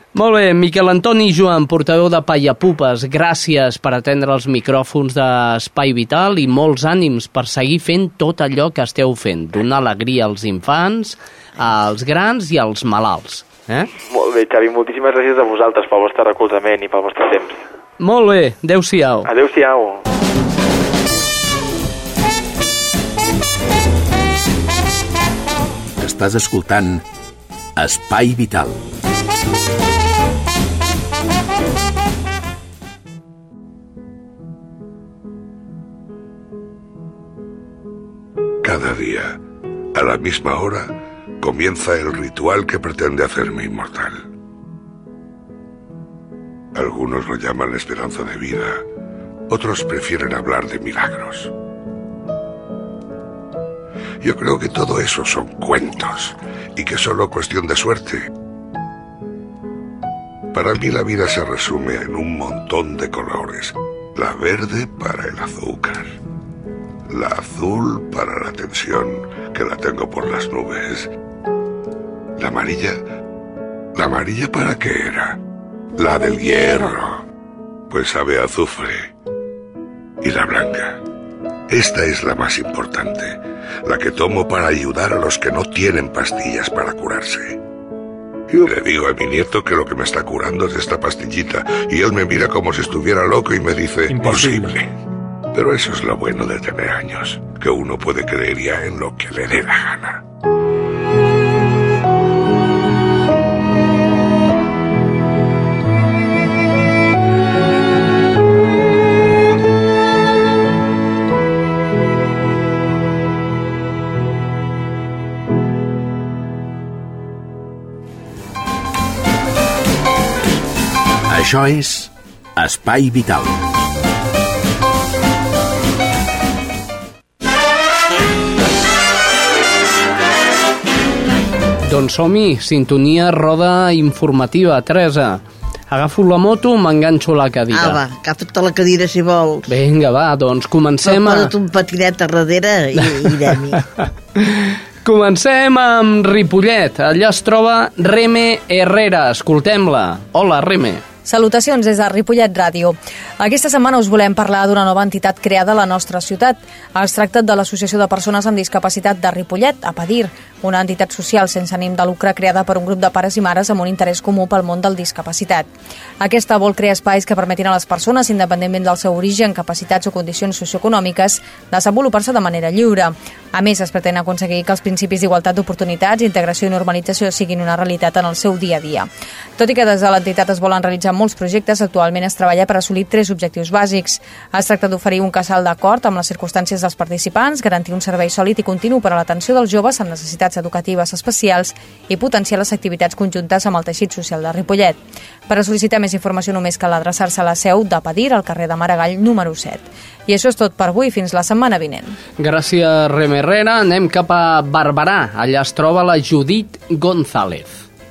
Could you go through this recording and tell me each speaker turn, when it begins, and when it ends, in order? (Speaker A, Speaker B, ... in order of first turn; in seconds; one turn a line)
Speaker A: 0.1-13.9
Speaker B: 13.9-17.6
Speaker A: 18.0-19.3
Speaker B: 19.2-20.1
Speaker C: 26.0-27.0
Speaker C: 27.8-28.8
Speaker D: 38.6-39.4
Speaker D: 39.9-44.2
Speaker D: 46.8-48.8
Speaker D: 49.5-51.5
Speaker D: 54.2-58.3
Speaker D: 60.5-66.2
Speaker D: 67.1-71.1
Speaker D: 72.4-73.0
Speaker D: 74.0-75.4
Speaker D: 76.0-77.2
Speaker D: 77.9-79.1
Speaker D: 80.2-81.0
Speaker D: 81.7-87.6
Speaker D: 88.5-94.9
Speaker D: 95.5-100.2
Speaker C: 121.3-123.6
Speaker A: 131.9-138.0
Speaker E: 137.7-139.7
Speaker A: 139.7-141.5
Speaker E: 141.1-143.8
Speaker A: 143.0-151.1
Speaker F: 151.2-165.7
Speaker F: 166.2-202.2
Speaker A: 202.4-207.8